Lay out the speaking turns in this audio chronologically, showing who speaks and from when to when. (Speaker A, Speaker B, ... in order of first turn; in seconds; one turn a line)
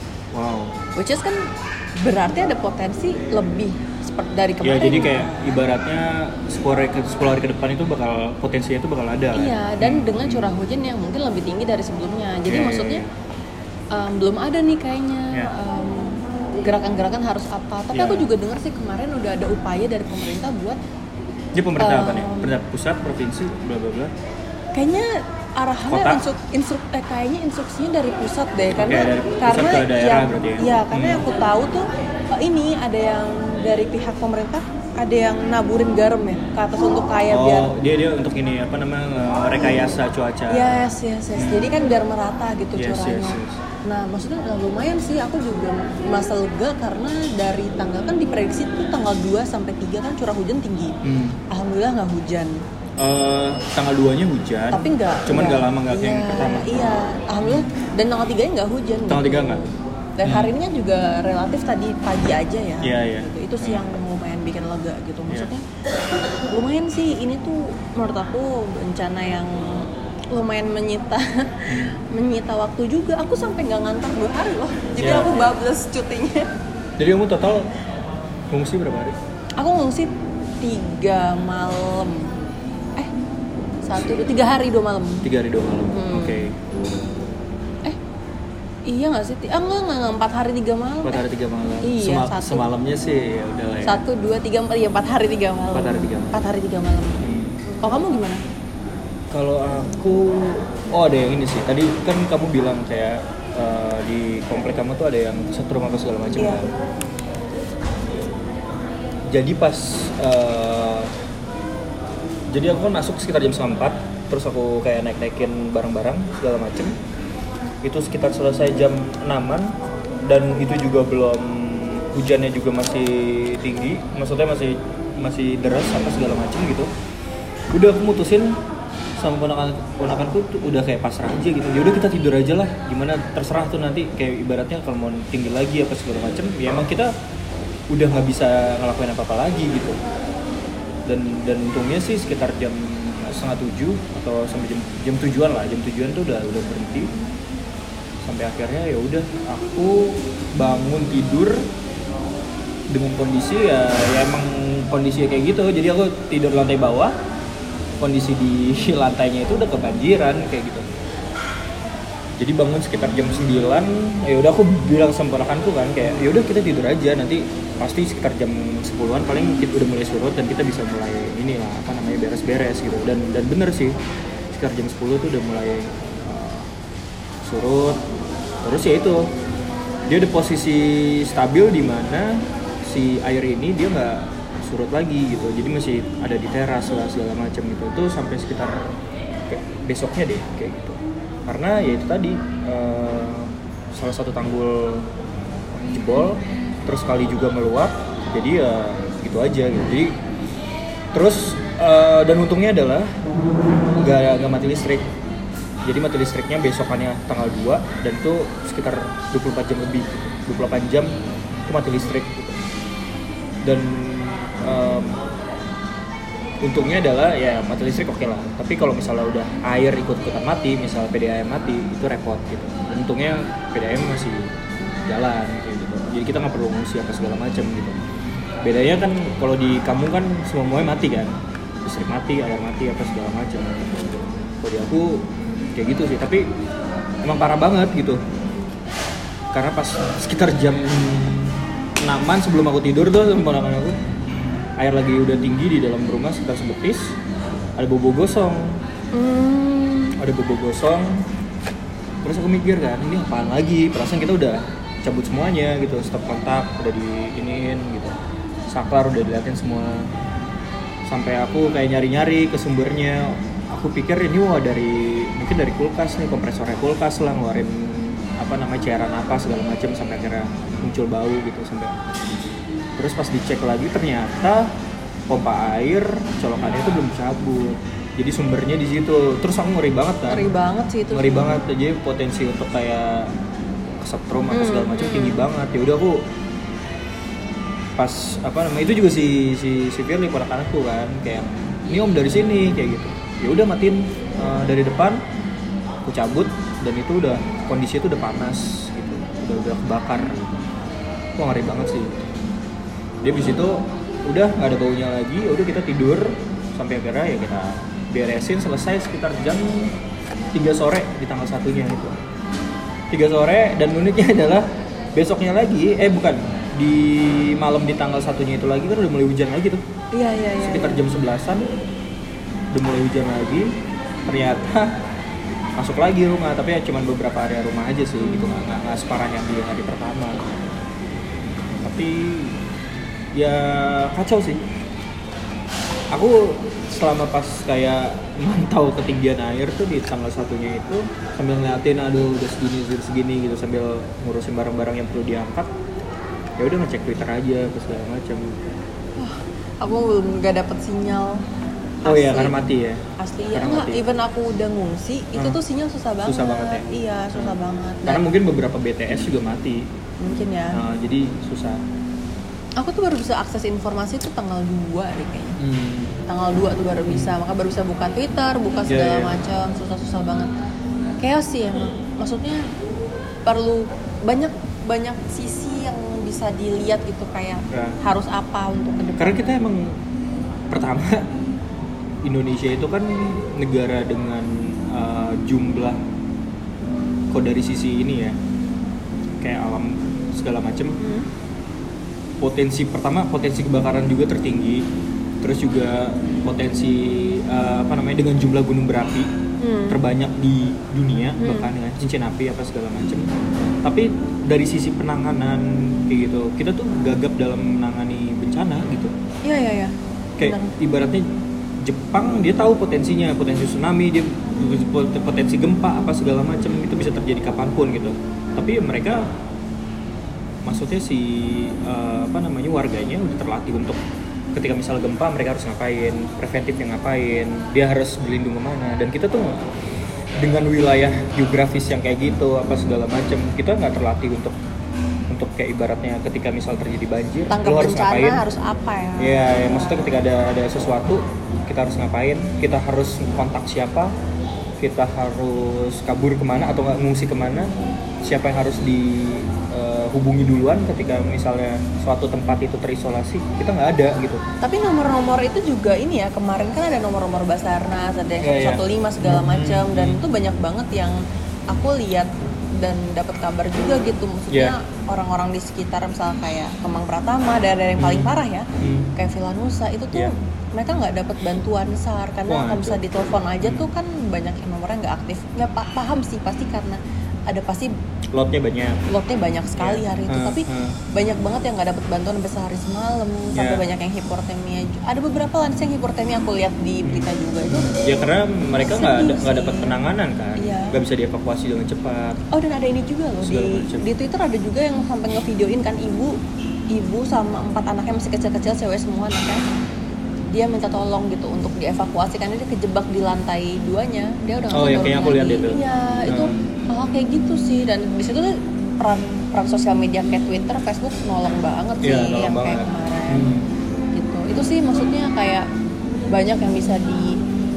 Speaker A: 0.3-0.8
Speaker B: 0.9-5.5
Speaker A: 4.6-10.5
Speaker B: 9.3-13.0
Speaker A: 12.5-13.1
Speaker B: 13.9-20.8
Speaker A: 17.9-18.3
Speaker A: 21.5-24.1
Speaker B: 21.8-22.5
Speaker B: 24.7-37.7
Speaker A: 25.9-26.2
Speaker A: 28.7-31.2
Speaker A: 37.3-41.7
Speaker B: 40.5-51.0
Speaker A: 42.8-43.6
Speaker A: 51.0-51.4
Speaker B: 51.5-52.6
Speaker A: 53.0-56.8
Speaker B: 54.7-65.6
Speaker A: 59.1-59.6
Speaker A: 60.2-60.5
Speaker A: 62.8-63.8
Speaker B: 66.5-76.5
Speaker A: 71.7-71.9
Speaker A: 75.0-75.5
Speaker A: 77.0-77.7
Speaker A: 78.5-79.2
Speaker B: 79.6-82.4
Speaker B: 83.8-85.2
Speaker A: 85.2-86.6
Speaker B: 85.9-86.4
Speaker B: 88.9-91.2
Speaker A: 91.0-94.0
Speaker B: 91.8-92.6
Speaker B: 93.8-97.2
Speaker A: 95.7-96.3
Speaker A: 97.2-97.6
Speaker B: 97.8-98.4
Speaker A: 99.3-106.7
Speaker B: 106.3-106.6
Speaker A: 109.3-111.1
Speaker A: 112.5-116.9
Speaker A: 117.8-119.7
Speaker A: 120.2-126.9
Speaker A: 127.7-128.6
Speaker A: 129.2-137.1
Speaker A: 137.9-140.0
Speaker A: 141.1-147.1
Speaker A: 148.2-151.6
Speaker A: 152.9-157.1
Speaker A: 158.0-160.9
Speaker A: 162.4-174.0
Speaker A: 174.5-176.7
Speaker A: 177.4-178.0
Speaker A: 178.6-179.3
Speaker A: 180.1-188.8
Speaker A: 189.5-195.1
Speaker A: 195.7-200.1
Speaker A: 201.1-203.1
Speaker A: 204.0-205.1
Speaker A: 205.8-211.1
Speaker A: 211.7-212.6
Speaker A: 213.6-215.2
Speaker A: 216.6-228.0
Speaker A: 228.6-231.3
Speaker A: 231.8-236.5
Speaker A: 237.2-238.2
Speaker A: 239.5-244.0
Speaker A: 244.8-247.2
Speaker A: 247.8-248.8
Speaker B: 249.1-250.2
Speaker A: 250.2-251.2
Speaker A: 252.2-258.1
Speaker A: 258.7-260.1
Speaker A: 261.1-272.2
Speaker A: 272.9-274.7
Speaker A: 275.3-280.5
Speaker B: 280.3-281.6
Speaker A: 281.1-283.3
Speaker A: 284.0-286.3
Speaker B: 284.5-285.4
Speaker A: 288.0-295.2
Speaker A: 296.0-300.6
Speaker A: 301.4-302.3
Speaker A: 303.2-309.9
Speaker A: 310.5-312.2
Speaker A: 313.1-319.8
Speaker B: 320.1-321.0
Speaker A: 320.6-321.7
Speaker A: 322.7-323.7
Speaker A: 324.2-324.9
Speaker A: 325.8-330.5
Speaker B: 328.2-328.5
Speaker A: 331.6-332.6
Speaker A: 333.3-334.6
Speaker A: 336.1-345.7
Speaker A: 346.6-348.6
Speaker B: 349.2-351.4
Speaker B: 352.0-352.6
Speaker A: 352.0-354.0
Speaker B: 353.2-358.2
Speaker A: 356.2-357.5
Speaker A: 358.1-359.9
Speaker B: 360.2-360.8
Speaker A: 360.7-361.8
Speaker B: 362.8-365.6
Speaker A: 365.6-366.2
Speaker B: 366.3-370.5
Speaker A: 367.1-367.3
Speaker A: 368.9-369.4
Speaker B: 371.2-372.6
Speaker B: 373.4-379.4
Speaker A: 377.7-378.0
Speaker A: 379.2-380.0
Speaker A: 380.7-381.3
Speaker A: 382.2-386.0
Speaker A: 387.3-388.4
Speaker A: 389.4-391.0
Speaker B: 391.0-391.3
Speaker A: 392.4-394.8
Speaker A: 395.4-399.3
Speaker B: 399.6-400.0
Speaker A: 399.9-403.3
Speaker B: 401.4-401.7
Speaker A: 403.8-409.1
Speaker B: 409.4-410.7
Speaker A: 410.4-411.3
Speaker A: 411.8-419.3
Speaker A: 420.6-424.0
Speaker A: 424.5-429.7
Speaker A: 430.4-434.6
Speaker A: 435.3-438.4
Speaker B: 437.5-440.0
Speaker A: 439.2-444.1
Speaker A: 444.8-454.4
Speaker B: 454.6-477.9
Speaker A: 458.4-460.2
Speaker A: 464.5-464.7
Speaker A: 468.0-469.1
Speaker A: 472.5-473.0
Speaker A: 473.6-473.9
Speaker A: 478.3-479.0
Speaker B: 479.1-487.9
Speaker A: 479.8-481.0
Speaker A: 483.5-483.8
Speaker A: 487.0-492.4
Speaker B: 488.8-489.9
Speaker B: 490.6-491.0
Speaker B: 492.5-496.4
Speaker A: 493.4-494.1
Speaker B: 496.9-499.6
Speaker B: 500.5-513.5
Speaker A: 504.7-506.5
Speaker A: 512.0-513.7
Speaker B: 514.1-515.7
Speaker B: 516.3-517.4